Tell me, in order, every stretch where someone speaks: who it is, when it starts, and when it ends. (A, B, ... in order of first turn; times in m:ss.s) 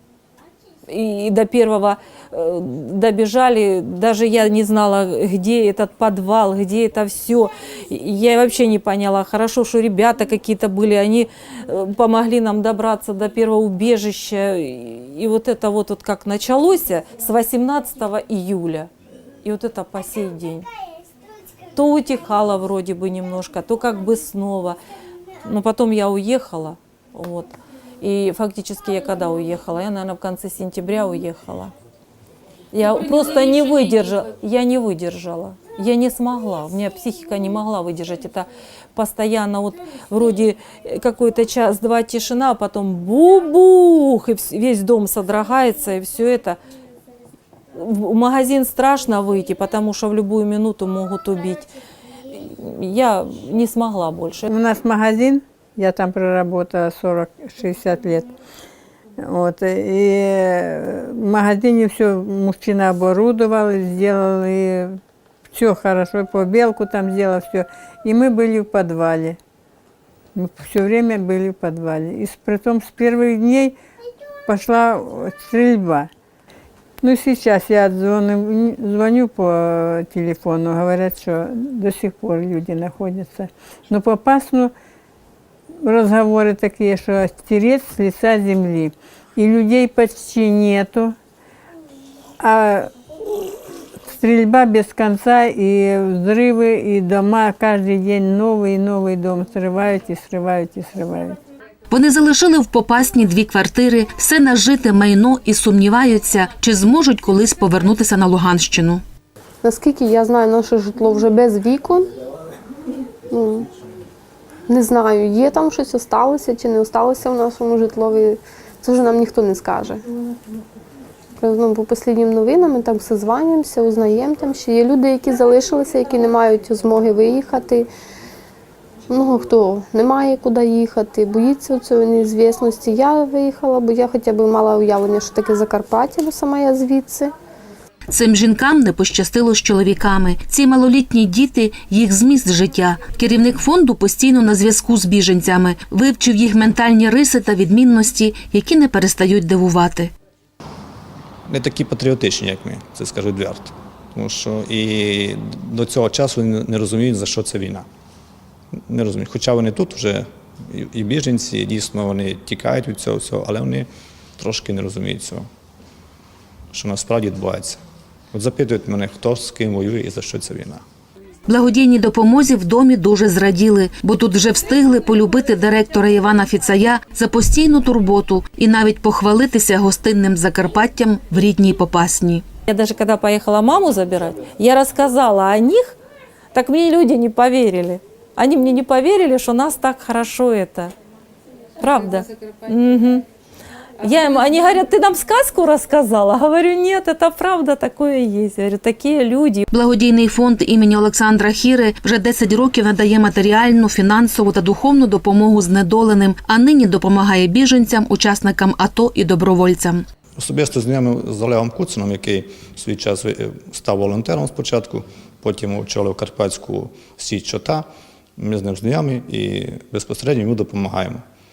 0:00.9-0:18.9 A
0:19.4-0:20.7 A
0:21.7-0:24.8 A
0:25.4-0:31.7 A
0:32.7-0:46.6 A
0:47.7-0:51.7 A
0:52.3-0:54.5 A
0:54.5-0:58.3 B
0:59.2-1:05.0 B
1:05.5-1:09.4 B
1:10.3-1:13.7 B
1:14.5-1:16.1 B
1:17.0-1:24.7 B
1:25.8-1:31.1 B
1:32.4-1:41.4 B
1:41.9-1:49.0 C
1:49.6-1:52.1 D
1:53.3-1:53.7 D
1:54.7-2:00.0 D
2:01.4-2:07.9 D
2:09.1-2:17.3 D
2:18.1-2:30.1 C
2:31.5-2:37.8 E
2:38.9-2:45.4 E
2:46.7-2:47.8 E
2:48.3-2:50.8 E
2:51.5-3:02.4 C
3:02.7-3:06.0 A
3:06.5-3:10.9 A
3:11.8-3:13.2 A
3:14.0-3:19.6 A
3:19.7-3:30.0 C
3:30.4-3:37.8 E
3:38.4-3:41.2 E